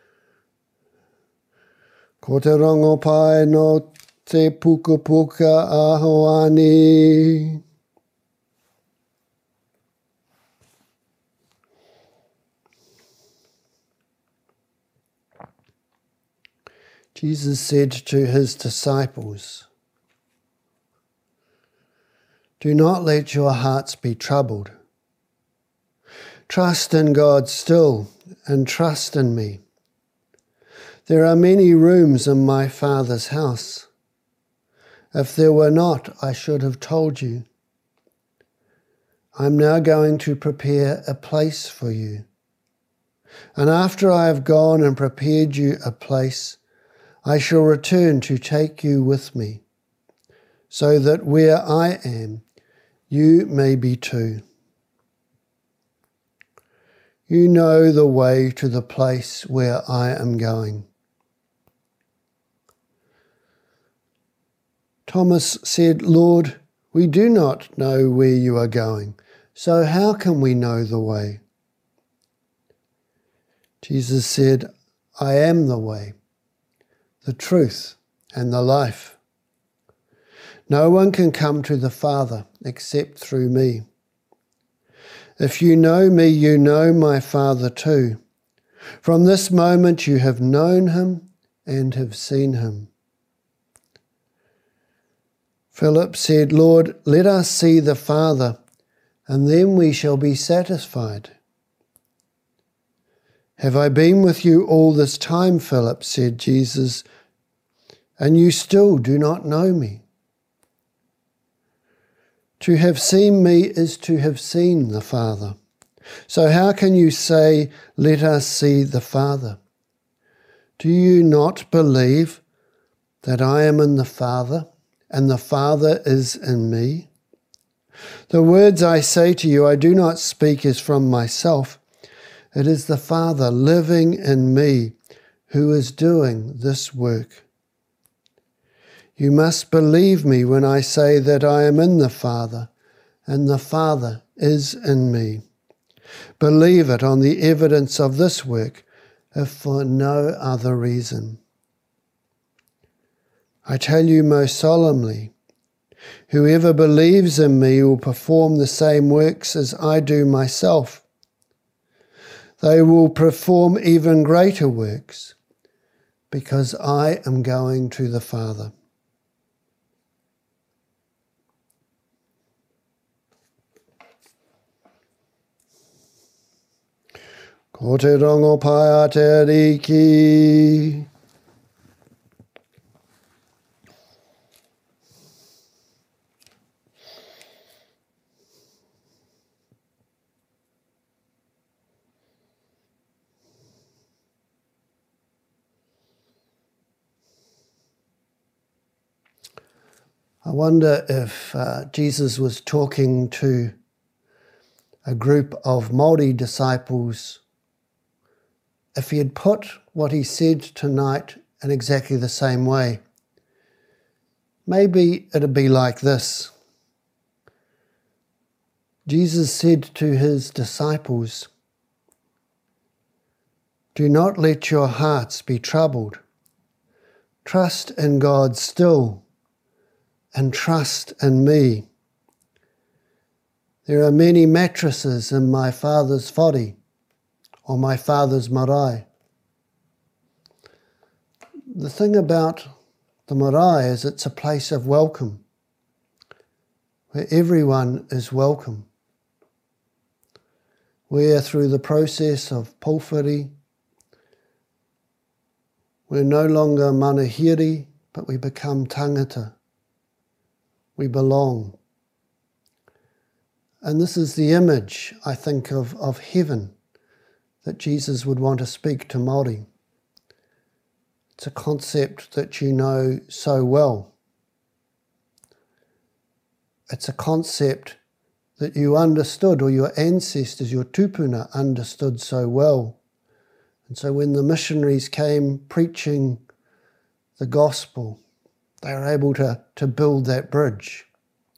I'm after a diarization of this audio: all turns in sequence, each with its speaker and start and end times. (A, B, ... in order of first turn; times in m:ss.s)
0:02.2-0:07.6 A
0:17.2-0:19.7 A
0:22.6-0:24.7 A
0:26.5-0:29.6 A
0:31.1-0:33.9 A
0:35.1-0:37.5 A
0:39.4-0:42.2 A
0:43.6-0:46.6 A
0:47.2-0:49.6 A
0:50.7-0:52.4 A
0:53.1-0:54.4 A
0:57.3-1:00.9 A
1:05.1-1:11.4 A
1:13.8-1:14.7 A
1:15.2-1:16.2 A
1:17.2-1:19.2 A
1:20.7-1:23.8 A
1:25.4-1:28.2 A
1:29.0-1:32.9 A
1:35.7-1:38.6 A
1:39.3-1:41.4 A
1:43.6-1:47.0 A
1:48.2-1:50.0 A
1:52.6-1:55.6 A
1:56.3-1:59.6 A
2:00.8-2:02.4 A
2:03.2-2:07.1 A
2:08.3-2:11.8 A
2:12.5-2:15.0 A
2:15.5-2:17.4 A
2:19.2-2:22.7 A
2:23.3-2:25.4 A
2:26.4-2:31.4 A
2:33.7-2:35.3 A
2:36.3-2:41.0 A
2:42.6-2:45.4 A
2:46.3-2:48.7 A
2:57.7-3:01.0 A
3:20.4-3:23.7 A
3:25.0-3:27.4 A
3:29.0-3:33.0 A
3:34.7-3:36.5 A
3:39.1-3:41.5 A
3:44.0-3:46.2 A
3:47.4-3:49.2 A
3:50.3-3:51.9 A
3:53.8-3:56.8 A
3:57.7-3:59.1 A
4:01.7-4:02.7 A
4:03.3-4:05.4 A
4:07.1-4:08.9 A
4:11.1-4:13.5 A
4:16.1-4:19.6 A
4:21.0-4:21.8 A
4:23.8-4:26.7 A
4:27.6-4:29.7 A
4:31.4-4:34.1 A
4:36.9-4:38.0 A
4:38.6-4:43.0 A
4:43.9-4:46.4 A
4:47.4-4:48.2 A
4:48.8-4:51.1 A